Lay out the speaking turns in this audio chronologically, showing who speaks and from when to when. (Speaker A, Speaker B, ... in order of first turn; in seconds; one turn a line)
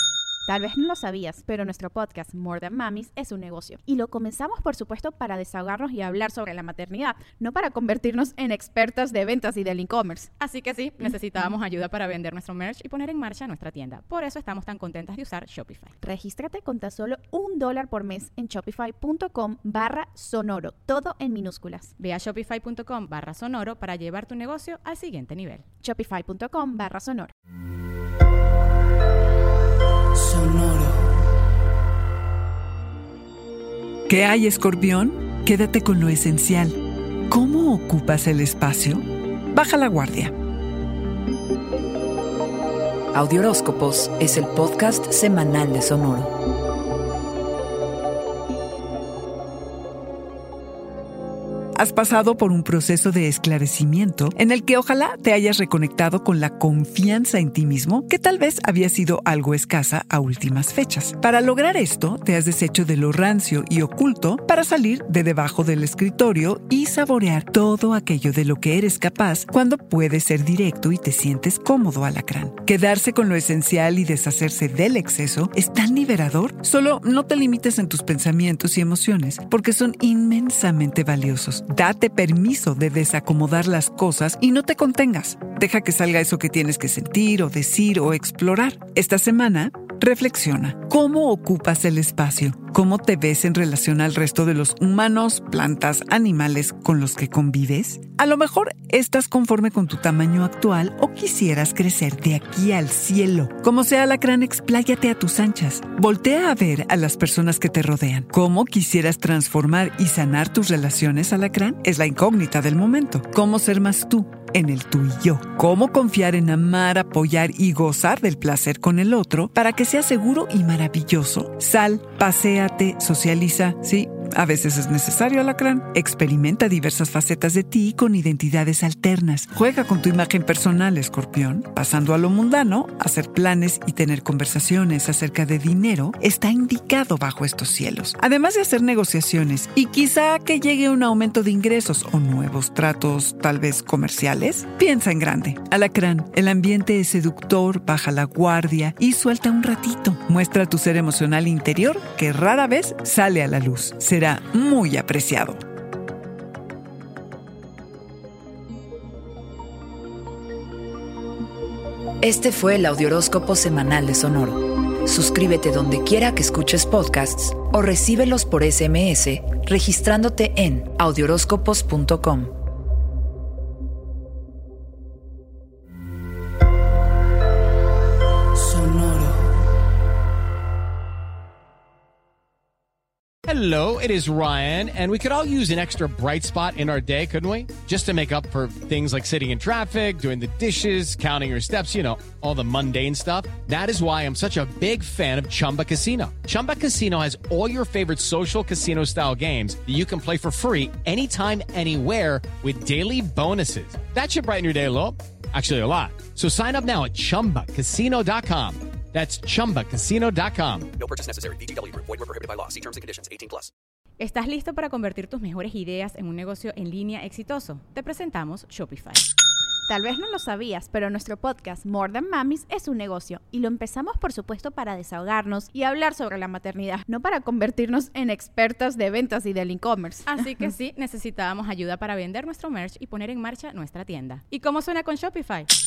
Speaker A: 0.5-10.3
Speaker B: 10.4-16.0
Speaker A: 16.0-21.9
Speaker B: 22.0-25.6
Speaker A: 25.8-27.3
Speaker A: 30.4-30.8
Speaker C: 34.1-36.8
Speaker C: 37.3-40.3
Speaker D: 43.1-46.3
Speaker C: 51.8-155.6
Speaker D: 162.2-172.5
Speaker E: 183.5-210.9
Speaker F: 211.0-213.4
Speaker B: 214.2-219.2
Speaker A: 219.9-230.4
Speaker B: 230.3-235.7